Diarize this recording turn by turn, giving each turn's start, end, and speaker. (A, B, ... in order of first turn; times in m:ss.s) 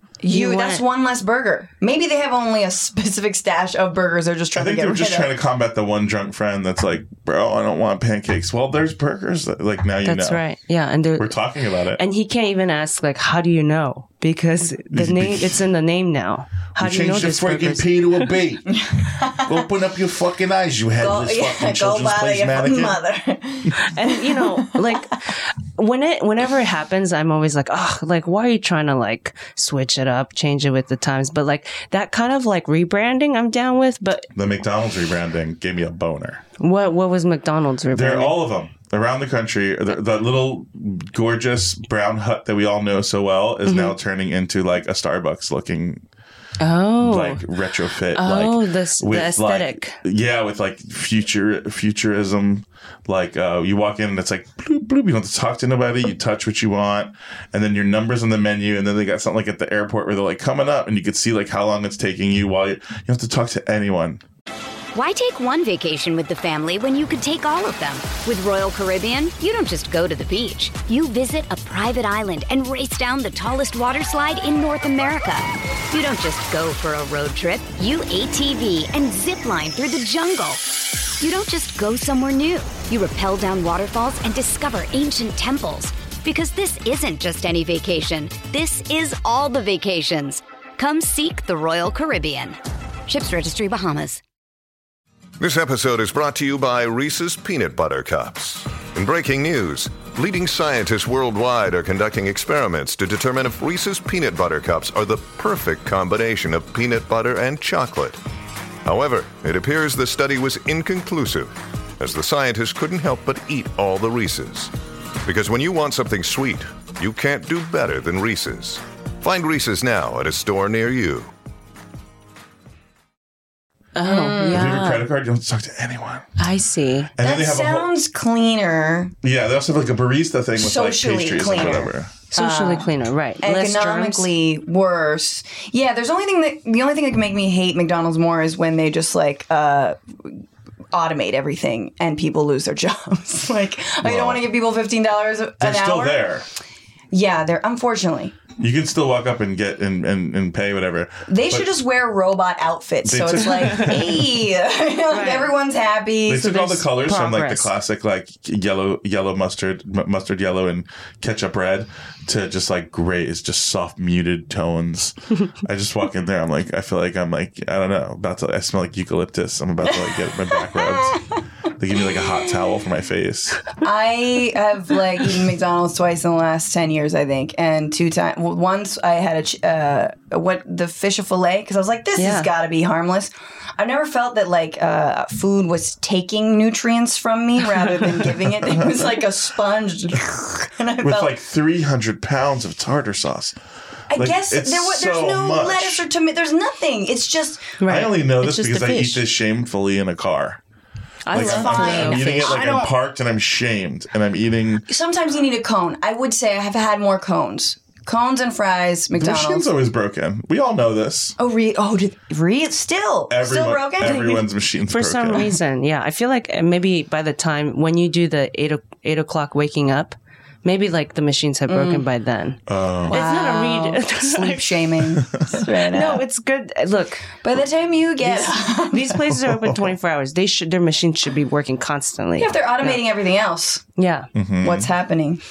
0:00.2-0:05.3 A
0:00.3-0:00.8 B
0:04.5-0:10.4 C
0:10.0-0:11.4 B
0:11.2-0:12.0 C
0:12.0-0:18.3 B
0:14.9-0:15.6 C
0:16.8-0:18.8 C
0:18.7-0:19.5 A
0:19.4-0:23.0 C
0:21.0-0:24.7 A
0:23.8-0:34.3 B
0:34.3-0:36.4 C
0:36.6-0:38.4 B
0:37.9-0:46.0 C
0:43.6-0:44.0 B
0:46.6-0:47.4 B
0:47.0-1:04.2 C
0:48.1-0:50.0 B
1:04.9-1:20.6 D
1:21.2-1:34.2 D
1:35.4-1:48.2 E
1:48.8-1:54.7 E
1:55.2-2:01.3 E
2:04.0-2:05.0 B
2:04.0-2:04.7 A
2:04.5-2:06.3 C
2:06.4-2:07.1 B
2:07.2-2:07.9 C
2:07.2-2:09.1 A
2:09.2-2:12.1 C
2:10.6-2:12.9 A
2:12.3-2:14.3 B
2:13.4-2:20.4 A
2:20.9-2:26.2 A
2:24.0-2:24.4 C
2:25.6-2:26.4 C
2:27.1-2:28.4 A
2:28.6-2:31.7 C
2:31.3-2:36.9 A
2:33.0-2:34.3 C
2:35.1-2:35.5 B
2:36.2-2:51.2 C
2:37.0-2:37.7 B
2:50.8-2:51.1 A
2:51.7-2:53.7 C
2:53.8-3:11.3 A
3:02.2-3:02.5 B
3:08.7-3:09.0 C
3:11.0-3:13.6 C
3:14.1-3:17.8 A
3:14.1-3:16.0 C
3:17.8-3:19.2 B
3:17.8-3:20.6 C
3:21.2-3:22.6 B
3:21.3-3:24.8 C
3:21.3-3:22.9 A
3:24.9-3:29.6 A
3:29.1-3:31.4 C
3:31.4-3:34.4 A
3:33.3-3:35.6 C
3:34.0-3:45.0 B
3:41.7-3:42.0 A
3:42.7-3:43.2 C
3:43.1-3:46.2 A
3:45.9-3:47.3 B
3:47.4-3:49.2 A
3:48.2-3:53.0 B
3:49.4-3:49.8 C
3:52.4-3:53.8 A
3:54.0-3:54.3 B
3:54.3-3:54.9 C
3:54.6-3:55.4 A